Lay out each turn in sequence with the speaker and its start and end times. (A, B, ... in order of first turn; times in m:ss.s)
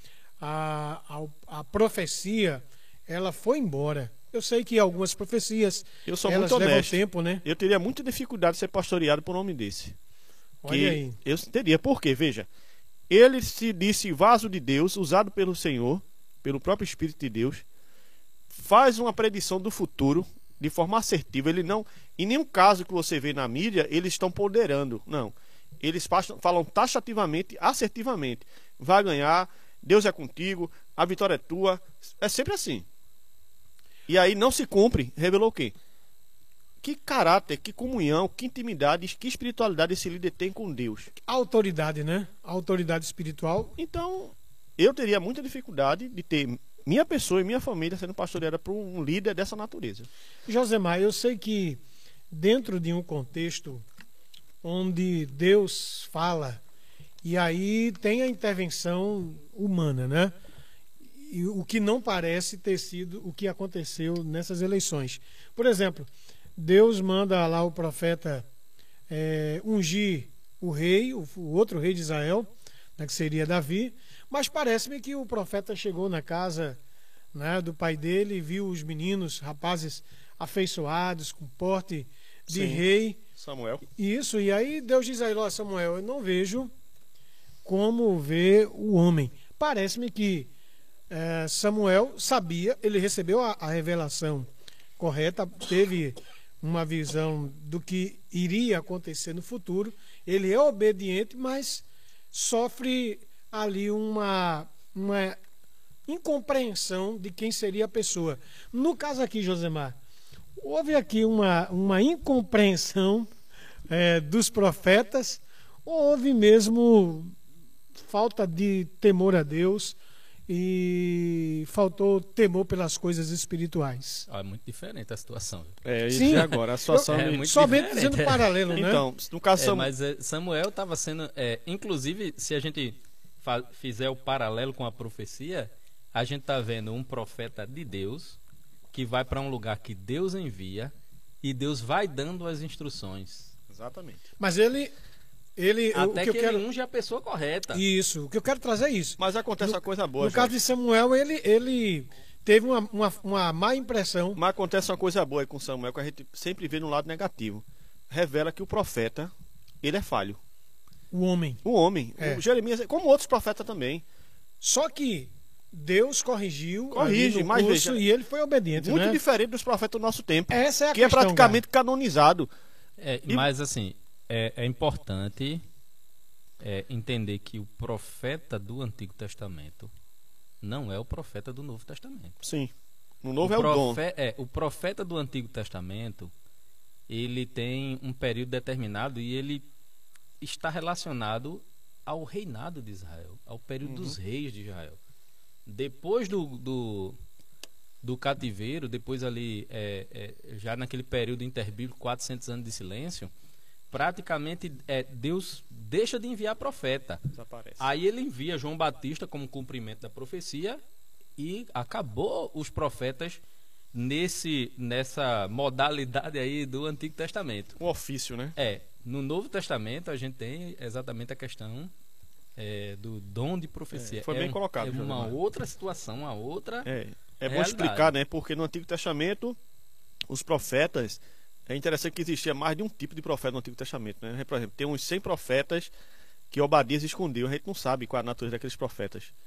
0:00.4-0:07.4 A
0:06.1-0:10.0 B
0:10.6-0:11.2 A
0:10.7-0:12.5 B
0:13.1-0:17.6 B
0:18.5-0:32.9 B
0:34.1-0:35.7 B
0:36.8-0:41.1 B
0:41.2-0:43.8 A
0:43.8-0:50.1 B
0:50.5-0:51.8 A
0:52.3-0:53.8 A
0:54.6-0:56.6 A
0:57.2-1:00.3 A
1:01.2-1:08.5 A
1:09.1-1:16.8 A
1:17.3-1:23.2 A
1:22.5-1:22.8 B
1:23.4-1:23.8 B
1:24.0-1:26.7 A
1:27.6-1:30.5 A
1:31.1-1:34.5 A
1:35.0-1:45.4 A
1:46.1-1:50.0 A
1:50.6-1:53.3 A
1:53.9-1:57.4 A
1:58.0-2:00.0 A
2:00.5-2:04.3 A
2:04.3-2:05.8 C
2:05.8-2:07.8 B
2:06.1-2:09.0 A
2:07.1-2:08.6 C
2:08.7-2:09.9 B
2:09.6-2:18.4 C
2:18.9-2:23.6 C
2:23.7-2:24.2 B
2:24.4-2:24.9 A
2:25.6-2:26.6 A
2:25.9-2:27.8 C
2:27.7-2:34.4 A
2:29.2-2:30.6 B
2:34.4-2:40.4 B
2:41.1-2:41.6 A
2:41.6-2:44.0 B
2:44.6-2:49.2 A
2:46.9-2:48.0 B
2:48.8-2:52.5 B
2:50.5-2:51.6 A
2:53.0-2:55.6 C
2:56.6-2:59.9 C
3:00.6-3:02.4 C
3:02.4-3:04.0 B
3:03.4-3:06.3 C
3:07.1-3:09.6 C
3:10.4-3:15.0 C
3:13.8-3:14.2 B
3:15.7-3:17.2 C
3:18.0-3:23.3 C
3:23.9-3:27.2 C
3:27.4-3:27.9 B
3:27.8-3:30.8 C
3:31.4-3:33.4 C
3:33.9-3:37.8 C
3:37.8-3:38.6 B
3:38.6-3:41.9 C
3:42.6-3:46.9 C
3:43.9-3:45.4 B
3:46.8-3:49.6 B
3:47.4-3:48.1 C
3:50.3-3:55.9 B
3:56.5-3:59.3 B